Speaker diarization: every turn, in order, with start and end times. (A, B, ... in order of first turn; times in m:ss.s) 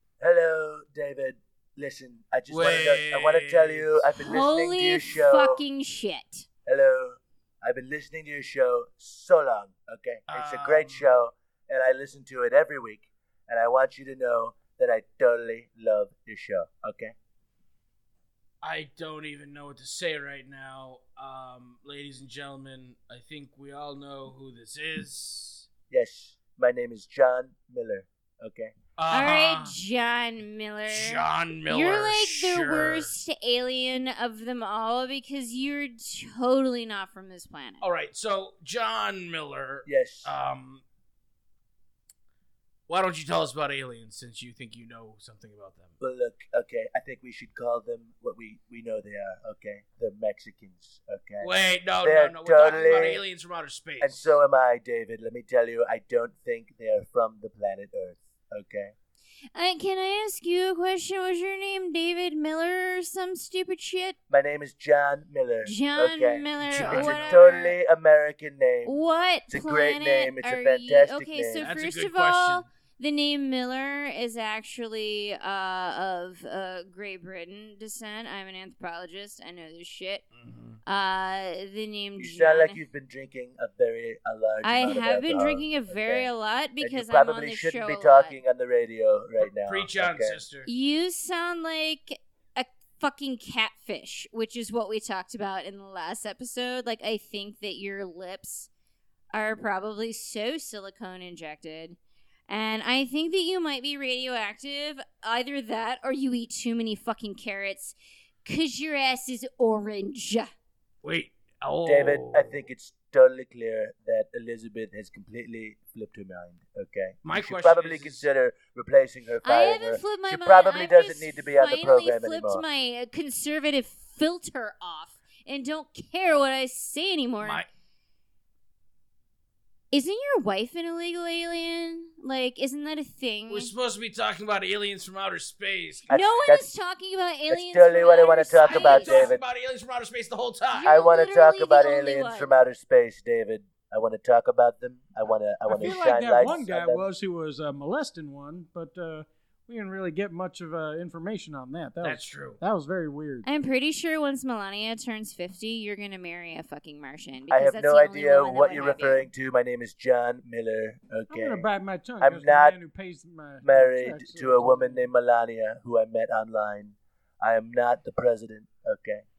0:00.2-0:05.6 A
0:02.5-0:04.1 B
0:04.2-0:06.4 C
0:06.6-0:17.1 A
0:10.3-0:11.1 B
0:18.6-0:25.7 B
0:25.9-0:28.7 A
0:29.0-0:29.7 B
0:29.1-0:37.8 C
0:30.9-0:33.1 B
0:37.8-0:40.8 B
0:39.8-0:40.3 A
0:42.9-0:46.0 B
0:46.0-0:53.2 A
0:51.4-0:54.2 B
0:54.0-0:58.9 A
0:59.5-1:04.2 C
1:04.3-1:09.0 A
1:05.6-1:07.8 C
1:06.6-1:07.6 B
1:08.8-1:20.2 C
1:09.5-1:11.7 A
1:11.6-1:12.6 B
1:20.3-1:20.8 B
1:20.8-1:22.8 C
1:22.2-1:30.4 A
1:24.6-1:28.4 C
1:29.4-1:30.7 B
1:30.6-1:38.7 C
1:39.3-1:50.5 C
1:51.0-1:52.7 B
1:51.8-2:02.6 A
1:57.2-1:58.2 B
1:59.4-2:07.6 C
2:07.4-2:07.7 B
2:09.9-2:13.7 C
2:13.5-2:16.1 B
2:16.1-2:16.7 A
2:16.1-2:19.3 C
2:17.5-2:19.4 A
2:18.1-2:21.0 B
2:20.7-2:22.6 C
2:20.8-2:27.0 A
2:25.7-2:33.4 D
2:32.0-2:32.6 B
2:33.4-2:39.3 C
2:37.5-2:41.6 A
2:41.3-2:45.0 D
2:42.2-2:42.8 A
2:43.6-2:49.2 A